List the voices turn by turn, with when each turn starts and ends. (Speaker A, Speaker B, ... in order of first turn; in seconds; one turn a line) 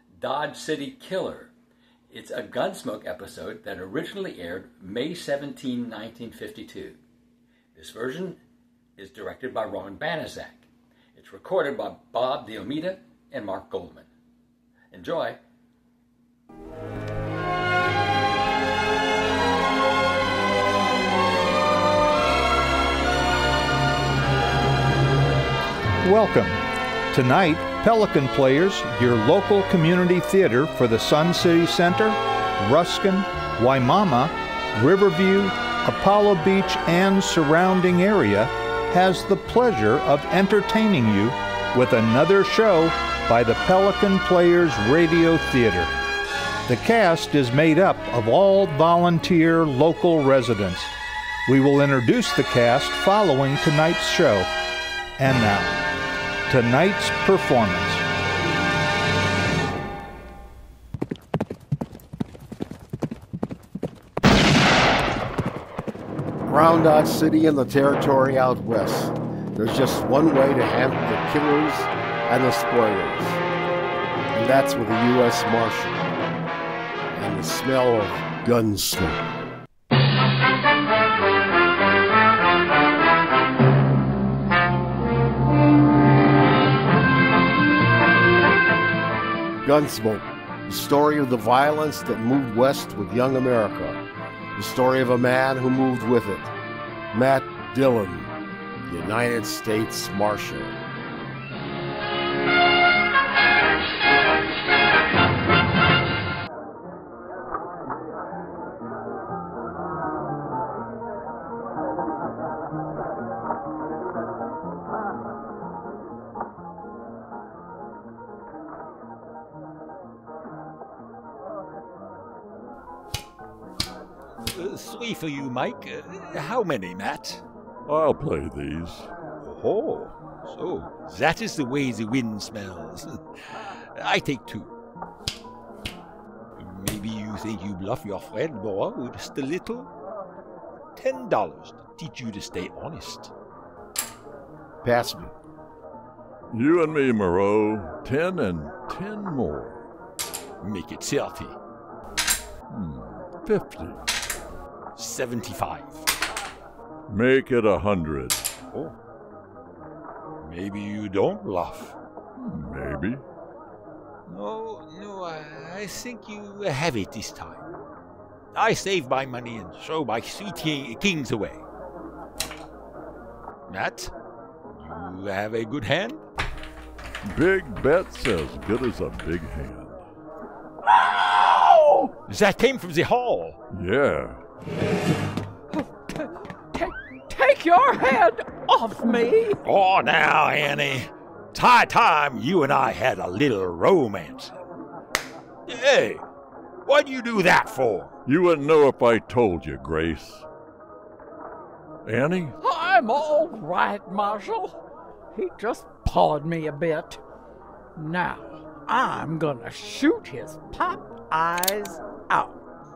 Speaker A: 0.2-1.5
Speaker A: 2.1-7.0
Speaker A: 7.7-8.4
Speaker A: 9.0-14.1
Speaker A: 14.9-15.4
Speaker B: 26.0-45.9
Speaker B: 46.6-50.9
Speaker B: 51.5-54.5
Speaker B: 55.2-55.8
Speaker B: 56.5-58.0
Speaker C: 66.4-73.4
Speaker C: 74.3-76.1
Speaker C: 77.1-79.3
Speaker C: 89.6-94.0
Speaker C: 94.5-96.5
Speaker C: 97.1-98.3
Speaker C: 98.8-100.8
Speaker D: 124.4-127.4
Speaker E: 127.9-129.1
Speaker D: 129.4-134.7
Speaker D: 136.6-139.9
Speaker D: 140.9-143.3
Speaker C: 144.8-145.3
Speaker E: 146.5-149.8
Speaker D: 150.6-151.6
Speaker E: 152.7-154.0
Speaker D: 154.9-156.1
Speaker E: 157.1-158.4
Speaker D: 160.4-161.9
Speaker E: 162.4-163.2
Speaker D: 164.3-167.6
Speaker D: 168.5-171.6
Speaker D: 173.7-174.1
Speaker D: 174.7-176.2
Speaker E: 177.2-180.0
Speaker F: 181.4-182.1
Speaker D: 182.3-183.6
Speaker E: 183.7-184.4
Speaker F: 185.7-189.6
Speaker D: 189.6-194.6
Speaker D: 195.7-196.2
Speaker D: 196.8-198.1
Speaker E: 198.2-200.4
Speaker E: 202.0-202.5
Speaker F: 202.6-204.8
Speaker F: 205.3-207.2
Speaker F: 207.9-212.6